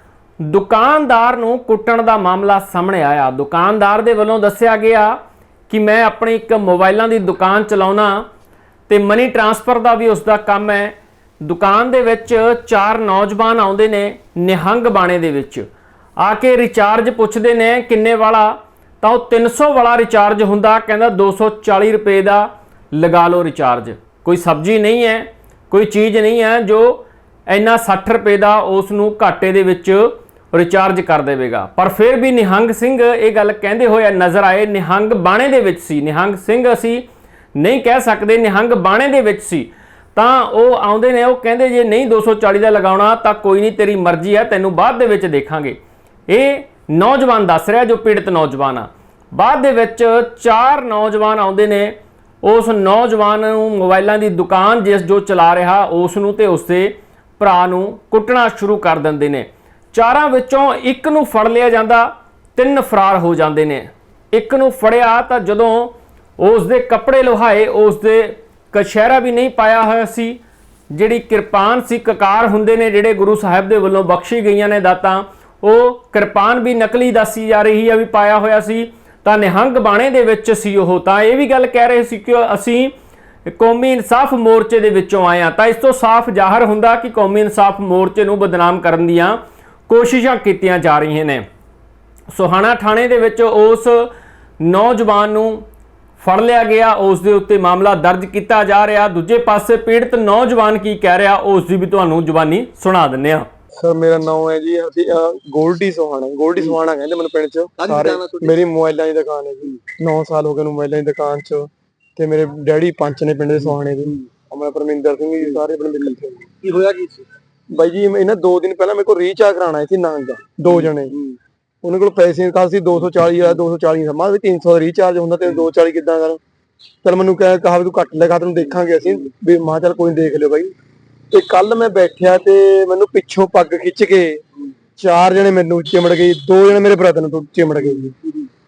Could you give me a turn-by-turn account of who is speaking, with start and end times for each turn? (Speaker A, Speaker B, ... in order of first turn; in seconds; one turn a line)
Speaker A: 0.4-5.2
Speaker A: 5.7-8.2
Speaker A: 8.9-15.7
Speaker A: 16.2-37.0
Speaker A: 37.6-70.4
Speaker A: 70.9-82.9
Speaker A: 83.5-91.5
Speaker A: 92.3-95.6
Speaker A: 96.2-103.5
Speaker B: 103.8-116.5
Speaker C: 107.8-108.6
Speaker C: 113.7-114.2
Speaker C: 116.6-117.3
Speaker B: 117.7-121.1
Speaker C: 120.7-121.4
Speaker B: 121.8-126.4
Speaker B: 127.0-130.7
Speaker B: 131.3-134.4
Speaker B: 135.0-138.1
Speaker C: 137.9-138.5